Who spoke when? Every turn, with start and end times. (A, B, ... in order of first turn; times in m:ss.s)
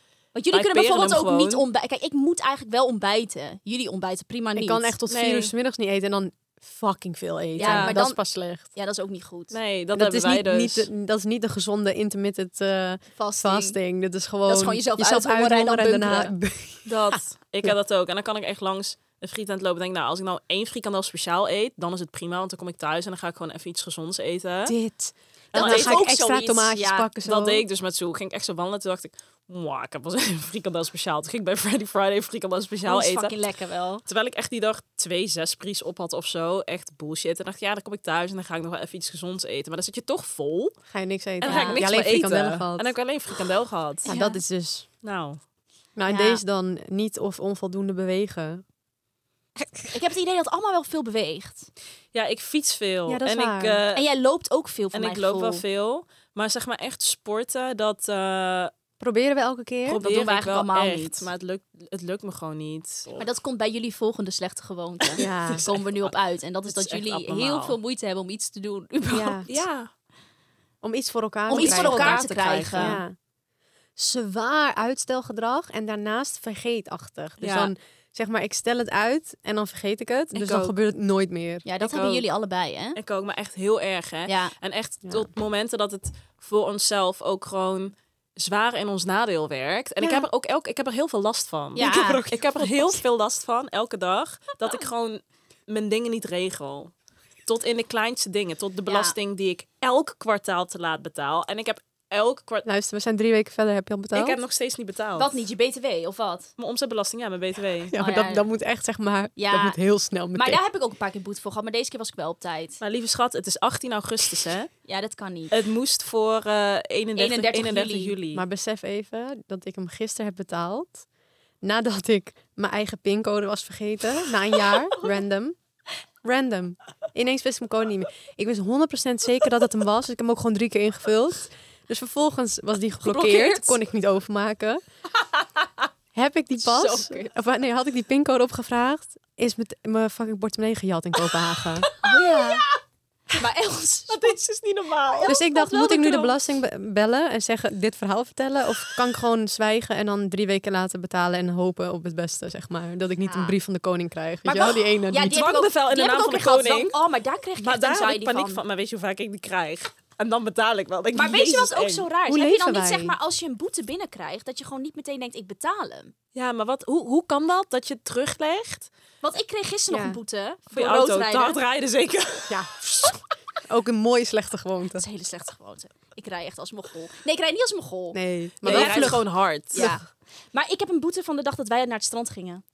0:00.3-0:04.9 A
0:00.5-0:01.6 B
0:04.5-0:08.7 C
0:05.1-0:05.5 B
0:07.6-0:08.0 B
0:07.6-0:09.5 A
0:09.5-0:10.9 B
0:09.9-0:17.7 C
0:13.2-0:13.8 A
0:14.4-0:16.3 A
0:16.8-0:24.8 B
0:24.6-0:27.6 C
0:25.5-0:26.0 B
0:25.5-0:27.1 A
0:27.2-0:33.3 B
0:32.8-0:34.0 A
0:34.0-0:40.7 B
0:40.9-0:42.9 C
0:41.4-0:44.2 B
0:41.4-0:41.9 A
0:44.0-0:44.4 A
0:44.1-0:44.9 C
0:45.0-0:45.4 B
0:46.0-0:48.6 C
0:46.1-0:46.4 A
0:49.9-0:51.7 A
0:52.1-0:54.0 B
0:53.1-0:53.8 C
0:53.9-0:55.6 A
0:54.9-0:58.7 B
0:59.0-1:00.0 C
0:59.8-1:03.3 B
1:00.0-1:01.3 A
1:03.2-1:09.5 A
1:05.1-1:06.1 B
1:05.2-1:05.7 C
1:06.6-1:07.8 B
1:09.1-1:09.5 C
1:09.5-1:09.9 B
1:10.8-1:13.2 C
1:11.5-1:13.0 A
1:11.5-1:13.0 B
1:14.0-1:21.6 C
1:17.4-1:17.7 B
1:20.3-1:20.7 B
1:21.6-1:23.0 A
1:21.8-1:22.2 B
1:23.0-1:36.9 B
1:24.3-1:24.5 A
1:31.8-1:32.2 A
1:31.8-1:32.9 C
1:37.4-1:42.6 B
1:38.9-1:39.1 A
1:42.6-1:44.4 C
1:44.1-1:45.3 B
1:45.2-1:46.5 A
1:46.6-1:47.9 B
1:47.9-1:50.6 C
1:48.0-1:48.4 A
1:49.4-1:49.8 A
1:50.3-1:52.8 A
1:52.8-1:54.7 B
1:54.8-1:55.6 A
1:55.5-1:58.4 B
1:57.2-1:58.2 A
1:58.3-2:01.0 C
2:01.6-2:05.6 C
2:06.2-2:14.8 C
2:13.0-2:13.8 A
2:16.1-2:21.9 C
2:16.6-2:17.3 A
2:22.0-2:22.6 A
2:22.0-2:22.5 B
2:23.3-2:24.4 A
2:24.1-2:25.3 B
2:25.0-2:26.3 A
2:25.2-2:35.4 C
2:33.2-2:33.5 A
2:34.4-2:38.6 A
2:35.3-2:37.0 B
2:37.6-2:42.1 B
2:41.1-2:46.1 A
2:42.3-2:43.2 C
2:46.3-2:48.9 B
2:49.2-2:51.6 A
2:49.9-2:50.2 C
2:50.7-2:52.7 B
2:52.5-2:55.0 C
2:55.0-3:02.6 A
2:58.1-3:00.0 C
2:58.6-2:59.8 B